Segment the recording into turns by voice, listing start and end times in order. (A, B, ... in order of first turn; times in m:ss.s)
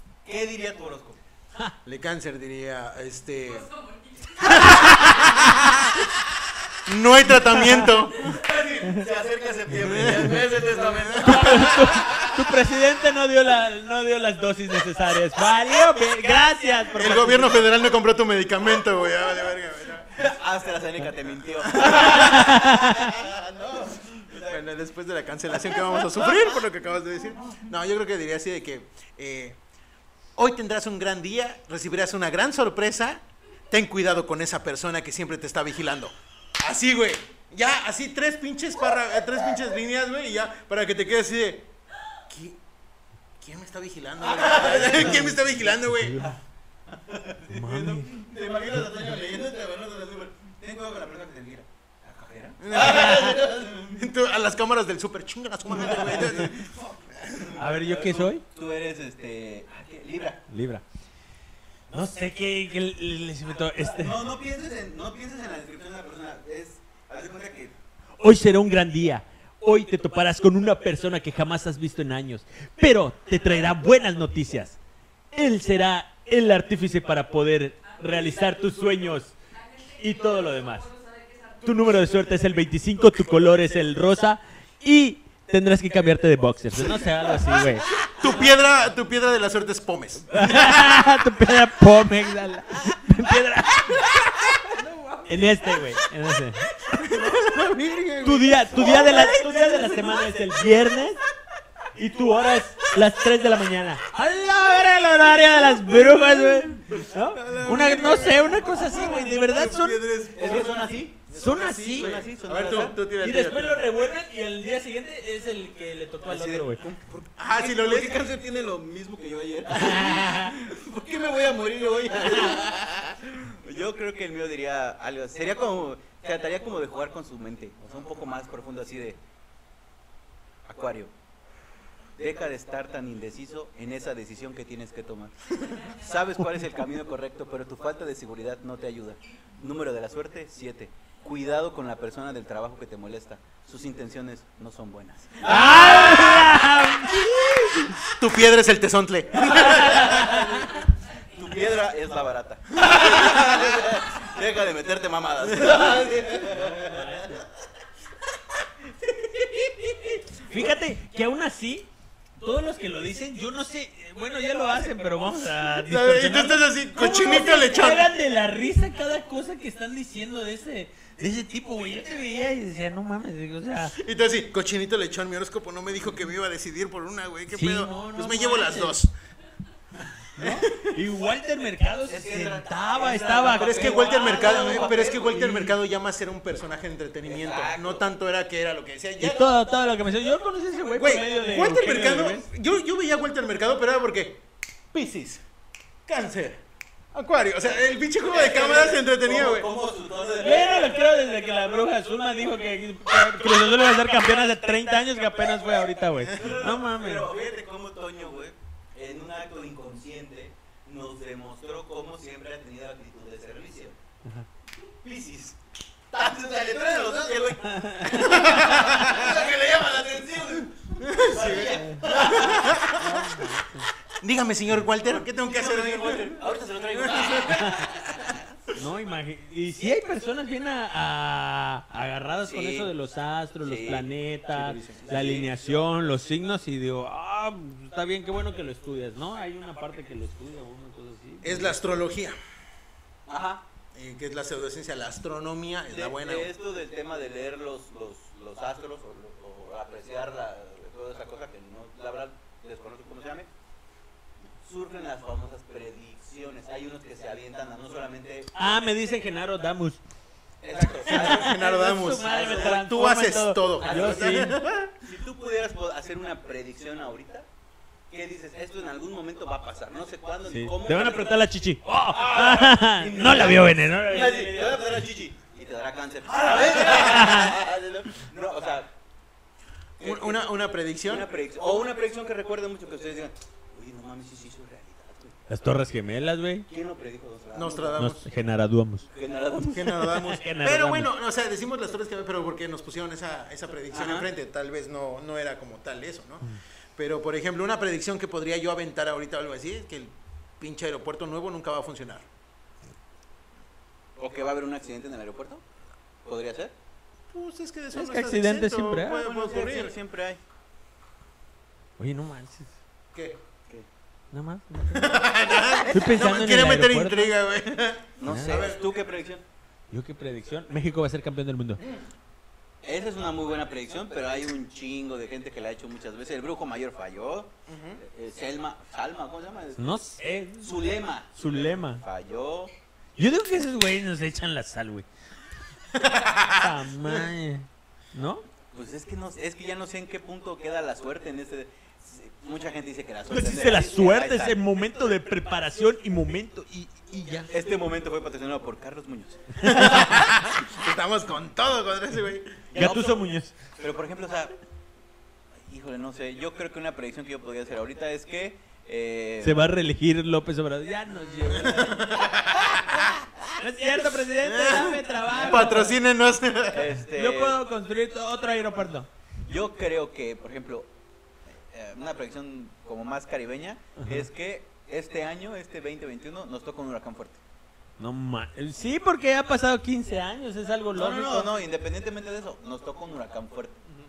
0:00.2-0:01.2 A
0:01.8-0:03.7 B
0:03.4-0:05.8 C
0:04.4-0:06.0 B
0:04.8-0:05.3 D
0:06.8-0:08.4 B
0:07.4-0:07.9 D
0:08.1-0:12.5 A
0:09.8-0:11.9 B
0:10.0-0:10.4 D
0:11.2-0:17.7 D
0:17.0-0:20.2 B
0:20.2-0:24.6 A
0:21.8-0:22.0 B
0:21.8-0:23.1 D
0:24.4-0:29.6 B
0:25.5-0:26.5 A
0:30.4-0:41.7 B
0:42.3-0:42.6 B
0:43.4-0:46.2 B
0:44.2-0:45.4 A
0:44.9-0:46.4 D
0:46.9-0:54.0 A
0:47.5-0:48.2 D
0:52.6-0:56.6 B
0:52.8-0:53.3 D
0:55.7-1:00.5 A
0:57.6-0:58.4 D
1:00.5-1:00.8 D
1:01.9-1:04.2 D
1:03.8-1:07.7 A
1:08.2-1:14.8 D
1:15.3-1:19.3 D
1:17.8-1:22.6 C
1:20.0-1:20.9 D
1:21.6-1:27.9 D
1:26.8-1:27.1 B
1:27.9-1:31.0 B
1:30.3-1:34.1 D
1:34.6-1:35.6 A
1:35.3-1:36.7 D
1:36.9-1:39.4 B
1:38.2-1:41.2 D
1:38.8-1:40.1 A
1:41.9-1:50.0 D
1:46.9-1:53.9 B
1:50.3-1:53.0 A
1:51.4-1:52.2 D
1:53.2-1:56.8 D
1:56.3-2:09.2 A
1:57.1-1:58.2 B
1:59.7-2:00.6 D
2:10.6-2:11.1 A
2:12.2-2:27.1 A
2:15.6-2:16.1 C
2:25.4-2:28.0 D
2:28.1-2:30.3 B
2:29.5-2:37.4 A
2:29.7-2:30.5 D
2:36.3-2:37.4 D
2:39.0-2:40.1 A
2:40.3-2:54.0 D
2:45.8-2:48.1 B
2:53.9-2:59.1 B
2:57.5-2:59.0 D
3:00.4-3:04.8 D
3:00.4-3:01.0 B
3:02.0-3:05.7 A
3:03.5-3:09.5 B
3:05.3-3:05.7 D
3:07.2-3:08.0 A
3:09.2-3:12.5 D
3:11.0-3:15.4 B
3:16.1-3:16.6 B
3:17.1-3:19.7 B
3:18.2-3:21.0 A
3:20.4-3:27.3 D
3:24.1-3:24.6 A
3:26.2-3:34.0 A
3:35.0-3:35.6 A
3:36.1-3:43.1 A
3:37.7-3:38.4 D
3:38.1-3:39.4 B
3:41.0-3:43.2 B
3:42.9-3:43.9 D
3:44.2-3:46.4 B
3:45.0-3:48.4 A
3:47.0-3:47.8 B
3:48.7-4:01.8 D
3:52.4-3:52.9 A
3:53.6-3:54.1 A
3:54.5-3:55.0 B
3:54.9-3:55.6 A
4:01.4-4:02.4 B
4:03.3-4:03.6 A
4:03.9-4:06.5 B
4:05.9-4:13.5 A
4:14.6-4:18.5 A
4:18.6-4:20.0 D
4:20.6-4:22.8 A
4:20.8-4:24.6 D
4:21.1-4:24.9 B
4:23.8-4:27.5 A
4:28.1-4:31.4 A
4:30.5-4:34.8 D
4:32.1-4:38.9 A
4:36.5-4:37.6 D
4:40.0-4:40.4 A
4:40.0-4:41.3 B
4:41.0-4:45.4 A
4:45.5-4:46.7 D
4:46.7-4:48.1 A
4:47.5-4:48.2 B
4:48.0-4:49.1 D
4:49.1-4:50.1 A
4:49.7-5:02.3 B
4:50.1-4:51.1 D
4:53.9-4:54.3 A
5:04.2-5:05.6 A
5:06.2-5:06.7 A
5:07.3-5:10.0 B
5:07.9-5:09.2 D
5:09.1-5:10.4 A
5:12.0-5:12.8 D
5:14.3-5:15.2 D
5:14.9-5:18.8 B
5:15.9-5:17.3 D
5:18.2-5:19.4 A
5:18.2-5:18.7 D
5:19.9-5:21.8 D
5:22.8-5:32.7 A
5:27.7-5:28.0 B
5:29.8-5:30.8 D
5:31.4-5:32.0 D
5:33.2-5:35.1 D
5:35.9-5:37.2 B
5:36.5-5:38.4 D
5:38.7-5:44.6 A
5:43.3-5:47.5 D
5:47.5-5:49.8 A
5:49.6-5:52.6 B
5:49.6-5:50.2 D
5:52.7-5:54.5 A
5:52.8-5:53.6 D
5:55.6-5:59.7 A
5:59.4-6:02.1 D
6:01.6-6:02.8 B
6:03.6-6:06.0 D
6:04.4-6:06.9 B
6:05.3-6:05.9 A
6:06.7-6:07.6 A
6:07.1-6:09.1 D
6:09.5-6:10.9 A
6:11.7-6:17.4 A
6:18.0-6:21.5 D
6:20.9-6:23.8 A